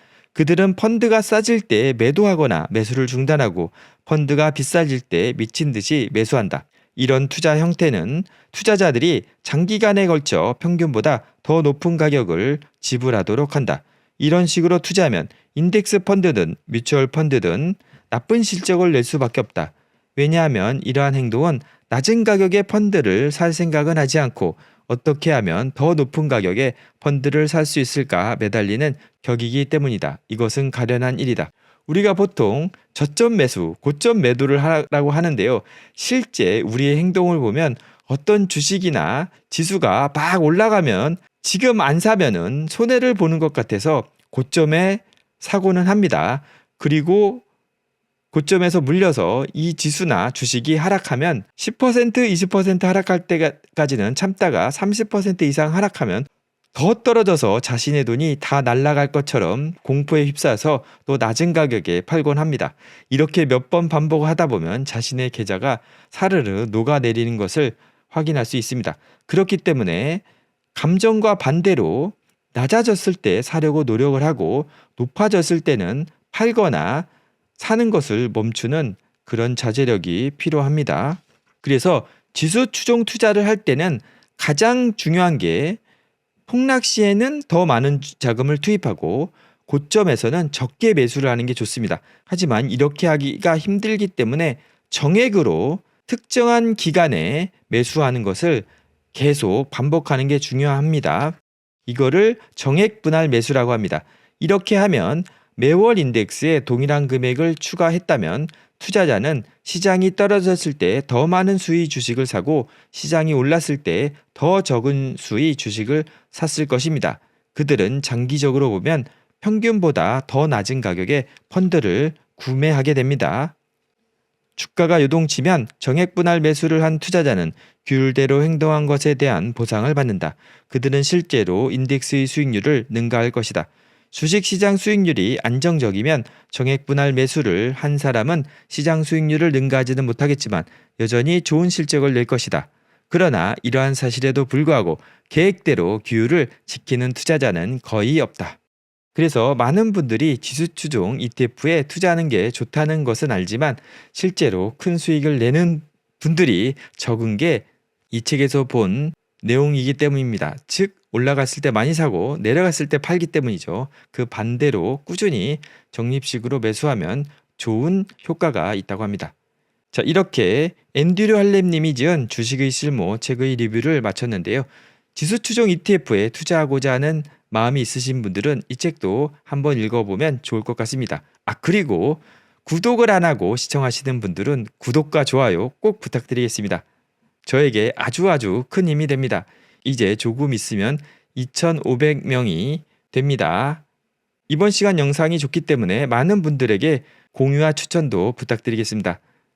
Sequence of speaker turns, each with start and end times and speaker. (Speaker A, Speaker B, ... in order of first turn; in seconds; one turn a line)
Speaker A: 0.3-47.4
Speaker A: 48.3-70.2
Speaker A: 70.7-77.1
Speaker A: 77.6-85.8
Speaker A: 86.5-101.3
Speaker A: 101.9-123.5
Speaker A: 124.6-148.6
Speaker A: 149.1-169.3
Speaker A: 169.9-186.8
Speaker A: 187.4-193.8
Speaker A: 194.5-199.2